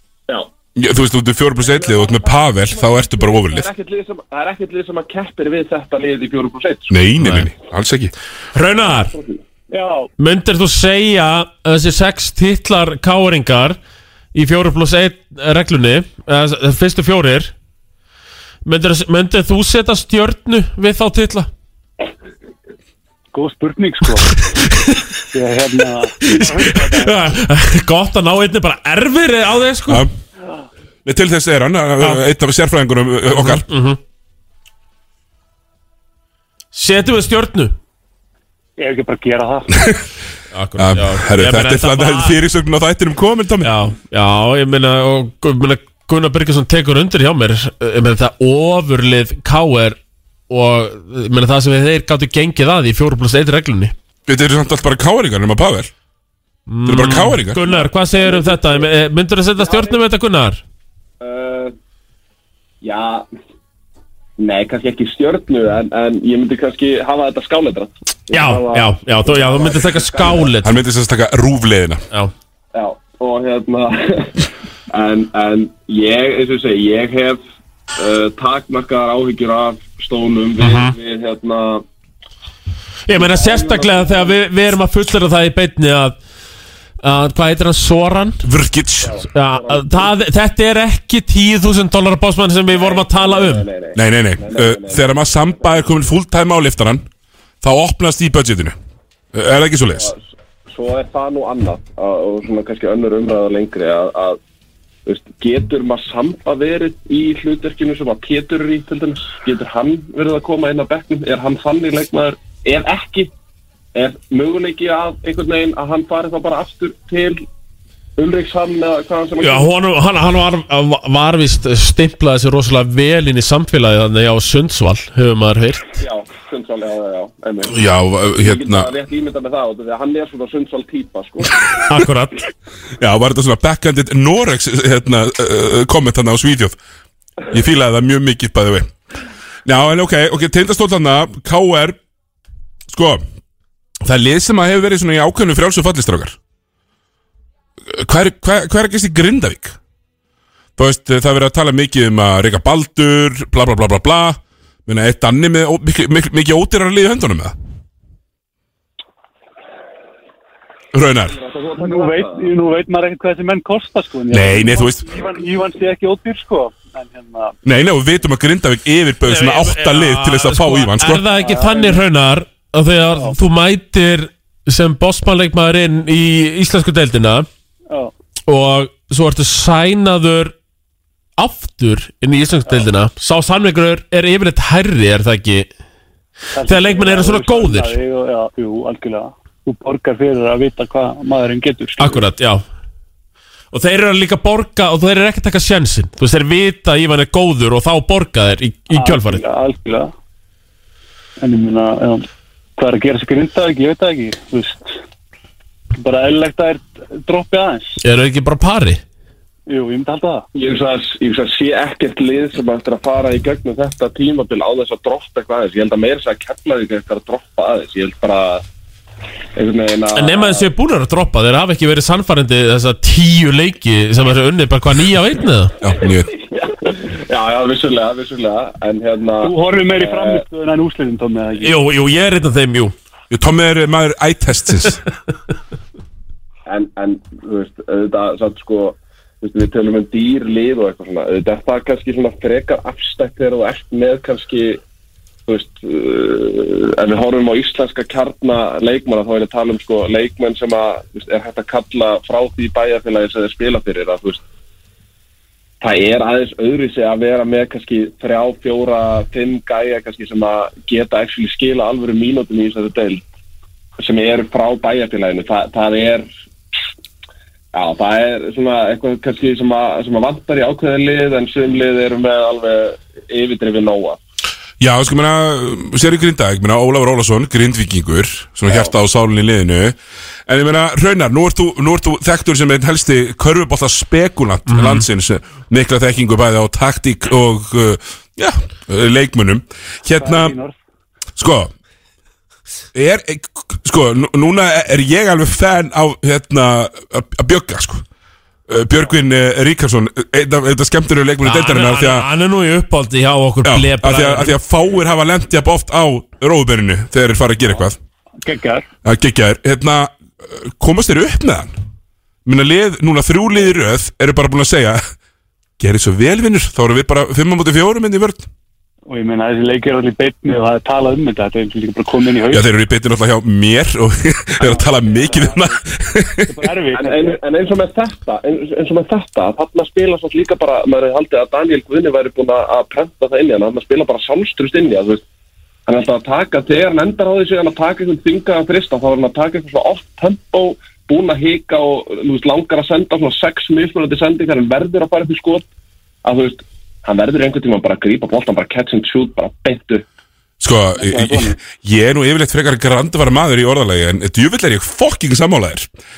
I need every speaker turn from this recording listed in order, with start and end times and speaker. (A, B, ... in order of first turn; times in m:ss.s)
0:00.8-0:03.7 A
0:01.6-0:06.9 B
0:06.9-0:08.1 A
0:07.2-0:07.5 C
0:08.5-0:09.2 C
0:09.1-0:09.4 B
0:09.7-0:10.1 D
0:10.2-0:13.8 C
0:14.3-0:17.5 C
0:18.6-0:21.5 C
0:23.3-0:24.3 D
0:24.6-0:25.0 C
0:25.3-0:27.2 D
0:26.2-0:30.0 C
0:29.9-0:30.1 A
0:31.0-0:33.7 A
0:33.3-0:34.0 C
0:36.7-0:37.8 C
0:38.8-0:39.7 D
0:39.7-0:40.0 A
0:40.5-0:42.4 C
0:40.8-0:43.8 A
0:43.6-0:50.0 C
0:50.5-0:53.9 C
0:54.3-0:55.9 A
0:56.7-1:00.6 C
0:56.9-0:57.6 A
0:57.6-0:58.9 B
0:59.6-1:00.0 B
1:01.2-1:01.7 B
1:02.8-1:03.3 B
1:04.4-1:10.5 B
1:08.3-1:10.7 C
1:10.6-1:12.0 A
1:12.7-1:17.4 B
1:18.0-1:21.9 B
1:20.6-1:20.9 C
1:23.1-1:26.2 C
1:23.1-1:24.4 B
1:27.0-1:28.4 C
1:28.4-1:29.2 A
1:29.0-1:30.2 B
1:29.3-1:33.7 C
1:32.7-1:35.9 B
1:34.0-1:37.1 A
1:37.6-1:38.8 A
1:39.3-1:40.1 A
1:39.9-1:44.4 B
1:45.1-1:53.3 B
1:54.0-1:57.5 B
1:58.2-1:59.7 B
1:59.4-2:06.0 C
2:06.0-2:07.8 B
2:07.7-2:08.9 A
2:08.4-2:11.6 B
2:11.9-2:12.4 C
2:13.0-2:16.8 A
2:17.5-2:18.9 A
2:19.6-2:22.0 A
2:22.9-2:23.2 A
2:24.0-2:26.4 A
2:27.9-2:29.8 A
2:30.8-2:37.6 A
2:40.9-2:41.4 A
2:41.3-2:42.5 B
2:41.8-2:47.6 D
2:44.3-2:45.0 A
2:47.6-2:51.3 A
2:49.3-2:57.5 C
2:51.3-2:52.0 D
2:58.5-3:00.5 C
3:01.4-3:05.7 C
3:06.6-3:12.2 D
3:06.6-3:08.0 C
3:12.0-3:12.6 C
3:13.7-3:19.4 C
3:18.9-3:20.1 D
3:21.4-3:22.3 D
3:22.8-3:25.0 D
3:26.0-3:28.0 D
3:28.0-3:29.0 C
3:29.7-3:30.5 D
3:30.6-3:38.6 B
3:39.6-3:40.7 B
3:40.2-3:45.7 C
3:45.8-3:46.3 A
3:46.5-3:50.4 B
3:49.4-3:51.8 D
3:51.6-3:52.9 C
3:53.3-3:55.0 A
3:56.7-4:04.8 B
4:05.5-4:14.4 B
4:15.8-4:23.2 B
4:24.0-4:26.3 B
4:27.7-4:34.2 B
4:34.8-4:40.0 A
4:38.7-4:38.9 B
4:40.5-4:50.6 A
4:44.7-4:45.1 C
4:50.2-4:50.8 D
4:51.4-4:51.7 A
4:52.9-4:58.0 A
4:58.7-5:02.3 A
5:01.4-5:04.6 C
5:03.6-5:08.0 A
5:08.4-5:08.8 D
5:09.0-5:11.8 A
5:12.4-5:15.0 A
5:15.8-5:18.5 A
5:19.1-5:22.6 D
5:22.5-5:26.6 A
5:24.6-5:25.5 B
5:26.5-5:27.4 D
5:26.9-5:35.2 B
5:35.9-5:45.7 B
5:46.2-5:50.0 B
5:50.6-5:55.9 A
5:51.0-5:51.6 D